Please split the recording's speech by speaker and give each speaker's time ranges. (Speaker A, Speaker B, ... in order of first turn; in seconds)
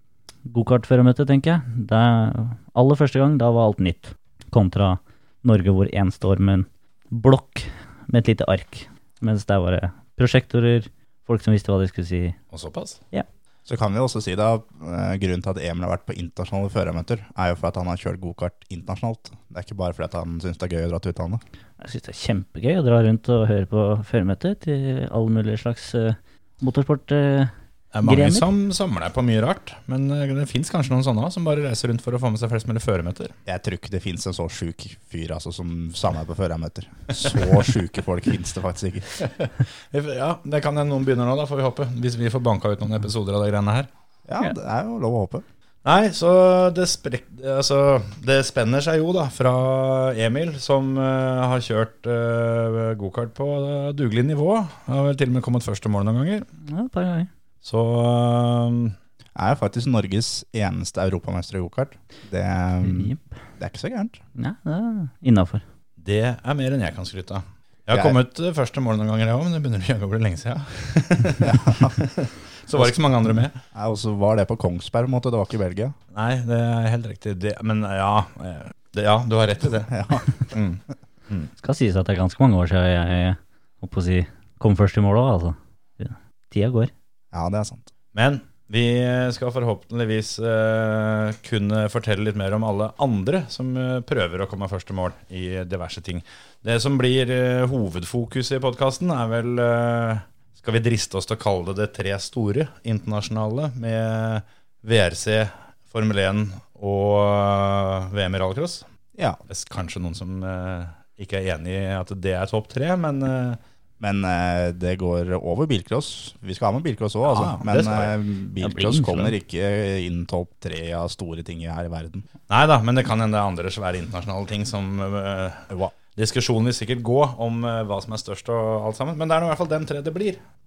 Speaker A: 0.5-12.4, 21.8-27.5, 28.0-28.5, 56.6-57.3, 62.8-63.2, 64.4-65.6, 81.6-86.9, 118.6-119.4
Speaker B: 12.5-13.0, 27.9-33.3, 39.2-43.9, 45.8-56.5, 57.6-59.0, 66.0-73.6, 76.1-81.5, 88.1-108.8, 109.5-113.6, 117.2-118.2, 122.5-130.4
Speaker C: 13.7-21.4, 33.5-39.1, 44.2-45.4, 59.4-64.2, 67.9-68.2, 71.4-72.0, 73.7-75.9, 79.9-80.3, 87.3-87.9, 114.0-122.2, 125.7-125.9